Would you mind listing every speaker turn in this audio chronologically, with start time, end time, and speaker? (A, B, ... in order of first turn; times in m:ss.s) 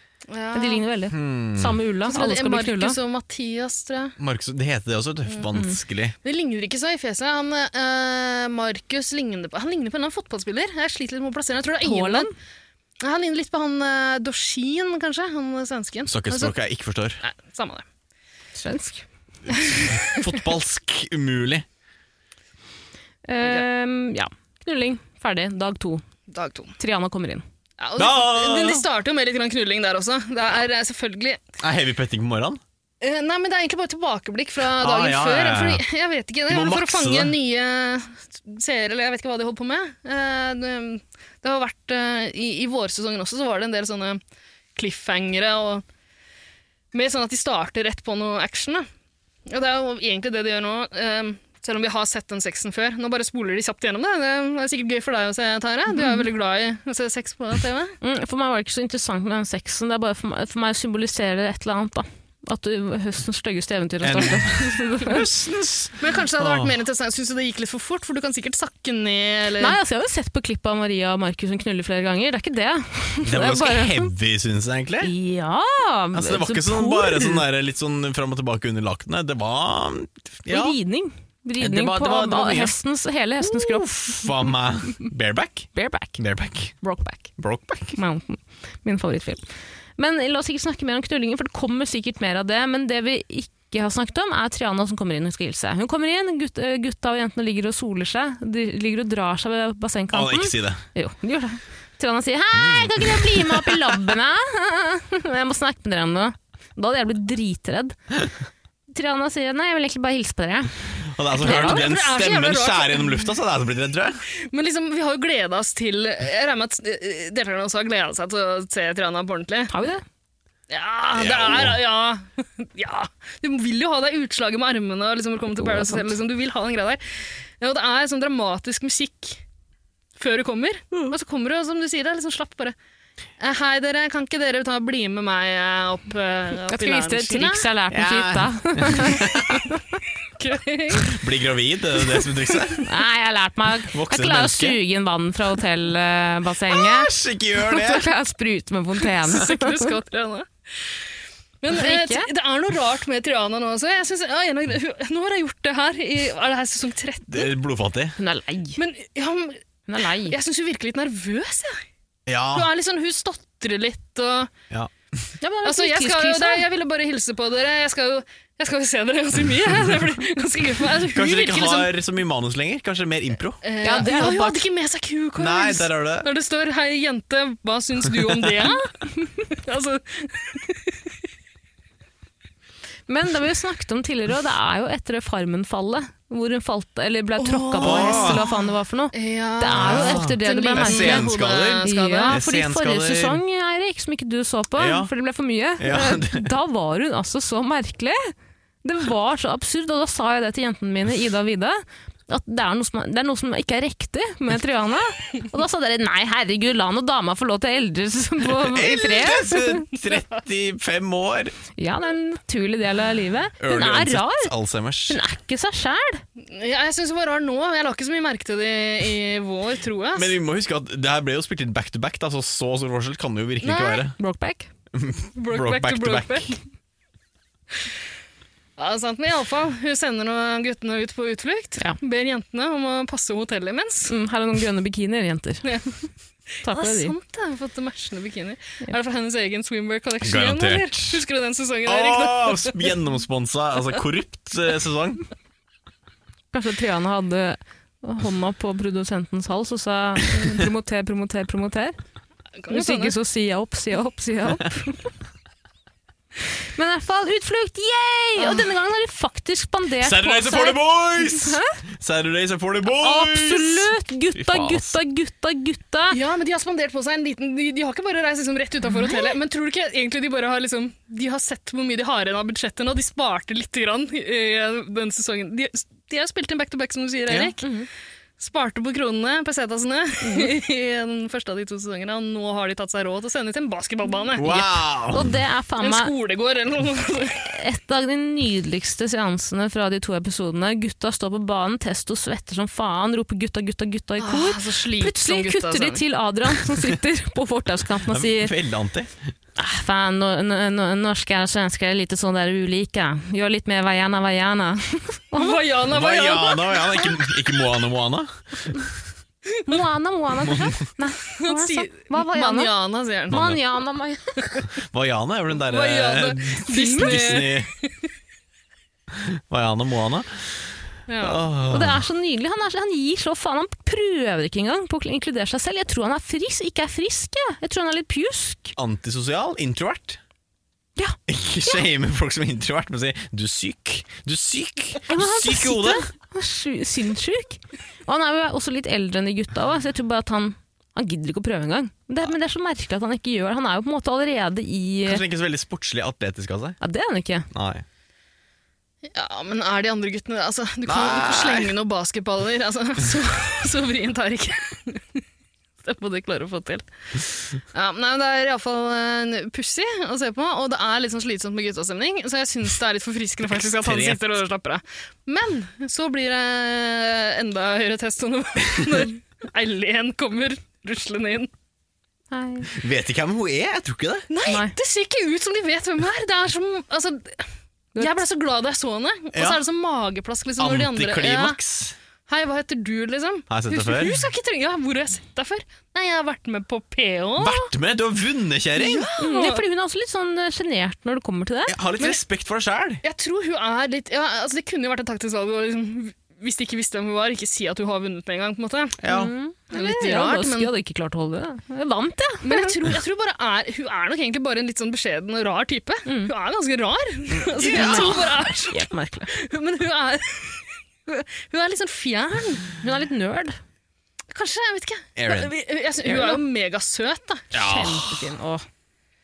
0:00.3-0:00.8 A
0:00.5-0:03.0 B
0:01.1-0:01.8 C
0:02.1-0:04.2 A
0:04.2-0:06.1 C
0:06.2-0:12.3 A
0:11.8-0:12.3 B
0:13.0-0:16.6 A
0:16.1-0:17.2 C
0:17.2-0:17.8 A
0:18.6-0:19.0 B
0:19.6-0:19.9 A
0:19.9-0:21.6 C
0:23.3-0:26.0 B
0:26.3-0:26.8 A
0:26.8-0:27.4 B
0:27.8-0:31.4 A
0:28.0-0:28.8 C
0:31.6-0:32.6 C
0:33.0-0:44.2 A
0:34.6-0:35.8 C
0:36.5-0:37.4 C
0:44.8-0:45.8 A
0:46.9-0:48.8 A
0:49.5-0:58.0 A
0:56.0-0:56.2 B
0:58.0-1:05.2 B
1:04.0-1:06.8 C
1:06.0-1:09.8 A
1:09.6-1:14.1 B
1:13.3-1:15.1 C
1:15.0-1:17.4 B
1:16.1-1:20.8 C
1:20.5-1:23.9 B
1:21.6-1:22.8 C
1:23.4-1:26.8 C
1:25.8-1:26.2 B
1:26.8-1:27.3 B
1:27.4-1:28.0 C
1:27.9-1:29.4 B
1:30.0-1:48.0 B
1:40.1-1:40.8 C
1:42.5-1:43.8 C
1:48.9-1:51.9 B
1:51.1-1:54.2 C
1:51.4-1:53.3 A
1:54.5-1:59.7 A
1:59.7-2:00.0 B
2:00.7-2:09.4 A
2:01.1-2:01.8 C
2:05.6-2:06.0 B
2:10.2-2:12.8 A
2:13.4-2:17.7 A
2:16.7-2:19.8 B
2:17.9-2:19.7 C
2:20.4-2:21.1 A
2:20.9-2:22.8 C
2:22.2-2:22.6 A
2:22.8-2:29.9 B
2:23.9-2:24.8 C
2:26.7-2:28.1 C
2:29.3-2:30.9 A
2:31.6-2:37.5 A
2:31.7-2:32.3 B
2:37.3-2:38.2 C
2:38.2-2:38.8 B
2:38.8-2:39.6 A
2:39.9-2:40.4 B
2:40.2-2:41.8 A
2:42.3-2:42.7 C
2:42.5-2:44.5 A
2:45.4-2:46.6 B
2:45.6-2:51.9 A
2:51.1-2:53.6 C
2:53.6-2:58.9 A
2:53.8-2:54.6 B
2:55.4-2:56.3 C
2:59.6-3:00.9 A
3:03.1-3:11.3 B
3:07.4-3:08.6 A
3:07.8-3:08.4 C
3:09.1-3:12.4 A
3:09.7-3:13.4 C
3:11.8-3:18.3 B
3:14.8-3:15.1 C
3:15.8-3:16.5 C
3:18.8-3:29.8 B
3:28.5-3:31.5 C
3:31.8-3:34.5 B
3:33.6-3:35.2 C
3:35.1-3:36.2 B
3:36.4-3:40.4 A
3:40.2-3:44.2 C
3:43.6-3:44.0 A
3:44.2-3:44.7 B
3:44.9-3:46.5 C
3:45.4-3:46.6 A
3:48.8-3:54.1 A
3:54.1-3:55.7 B
3:55.6-3:55.9 A
3:56.6-3:57.1 B
3:56.6-4:02.9 A
4:00.2-4:01.2 C
4:01.9-4:05.3 C
4:06.5-4:12.0 B
4:12.6-4:13.2 A
4:12.7-4:15.1 B
4:16.8-4:21.6 B
4:18.4-4:18.6 A
4:20.0-4:25.0 C
4:23.0-4:26.2 B
4:26.1-4:37.7 A
4:28.9-4:29.3 B
4:37.6-4:37.9 B
4:38.4-4:44.5 A
4:40.2-4:40.5 B
4:44.4-4:45.4 C
4:44.4-4:46.1 B
4:45.8-4:47.5 A
4:47.4-4:58.5 B
4:54.2-4:56.0 A
4:58.1-4:59.1 C
4:59.6-5:05.6 B
5:05.3-5:07.3 A
5:05.9-5:08.9 C
5:09.7-5:12.7 B
5:11.4-5:13.5 A
5:13.3-5:14.4 B
5:13.3-5:13.6 C
5:14.9-5:17.7 C
5:15.5-5:17.9 A
5:16.7-5:17.1 B
5:19.1-5:20.4 C
5:21.1-5:21.4 A
5:21.2-5:22.0 C
5:21.7-5:28.8 B
5:28.8-5:30.2 C
5:31.0-5:31.8 B
5:31.3-5:36.0 C
5:35.1-5:45.2 B
5:45.1-5:46.8 C
5:46.8-5:47.5 B
5:47.5-5:47.8 C
5:49.1-5:55.2 A
5:50.9-5:51.7 C
5:55.8-5:56.9 A
5:57.7-6:11.5 A
6:03.5-6:04.2 C
6:12.3-6:12.7 B
6:12.8-6:14.3 C
6:14.3-6:17.4 A
6:14.5-6:14.7 B
6:18.0-6:18.2 B
6:18.0-6:21.6 A
6:19.3-6:19.6 C
6:20.6-6:22.0 C
6:22.3-6:27.7 A
6:23.5-6:24.2 C
6:27.4-6:29.0 C
6:28.8-6:29.6 A
6:29.2-6:31.7 B
6:31.7-6:33.0 C
6:33.0-6:39.0 A
6:39.0-6:39.3 C
6:39.1-6:42.7 B
6:39.7-6:40.7 A
6:42.4-6:52.7 A
6:46.1-6:46.3 B
6:47.3-6:48.3 C
6:47.7-6:49.3 B
6:52.8-6:53.6 B
6:54.3-6:57.5 A
6:55.2-6:55.5 C
6:56.0-6:56.4 B
6:57.5-6:58.3 C
6:57.6-6:58.6 B